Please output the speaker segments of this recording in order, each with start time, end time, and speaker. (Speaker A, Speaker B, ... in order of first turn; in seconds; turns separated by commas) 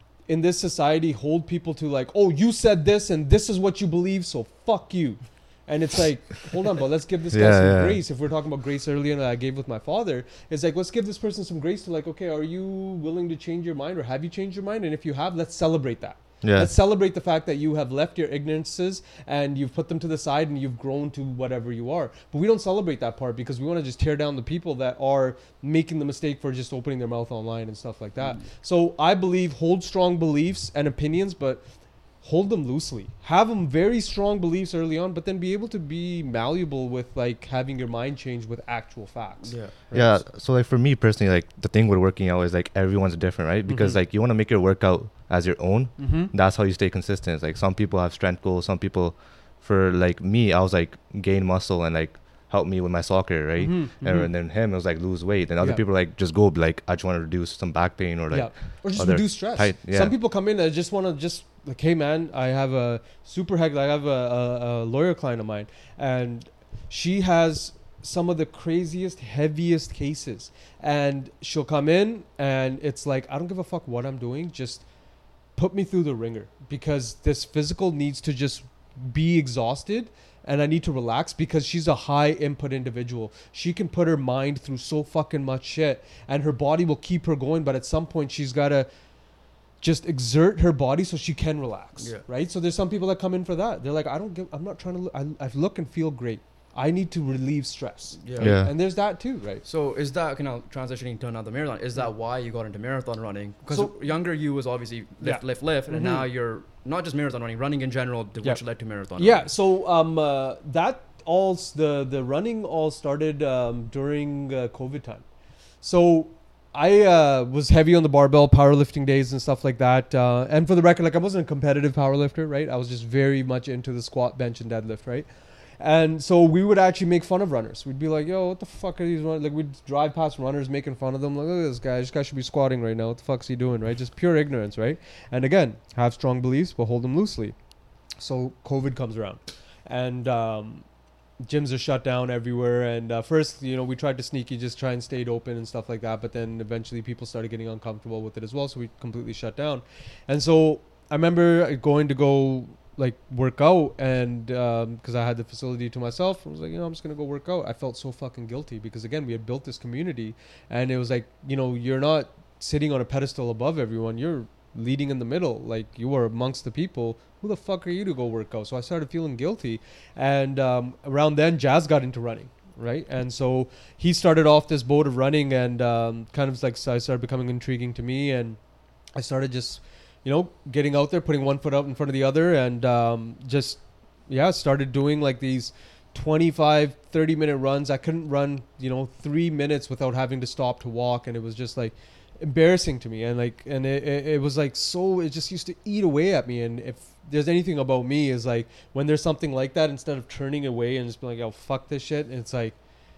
Speaker A: 0.2-40.2, Speaker B: 7.3-8.0, Speaker B: 16.4-16.7, Speaker C: 39.4-39.8, Speaker B: 39.9-60.1, Speaker A: 43.7-44.0, Speaker A: 46.0-46.3, Speaker A: 53.6-54.3, Speaker A: 58.3-74.9, Speaker A: 75.5-88.9, Speaker A: 89.8-99.6, Speaker C: 92.0-92.2, Speaker C: 98.2-98.8, Speaker B: 98.4-98.7, Speaker C: 99.6-109.5, Speaker A: 103.7-104.0, Speaker A: 105.2-106.3, Speaker A: 108.4-115.2, Speaker A: 115.8-137.5, Speaker A: 138.2-140.8, Speaker A: 141.4-178.6, Speaker A: 179.1-202.8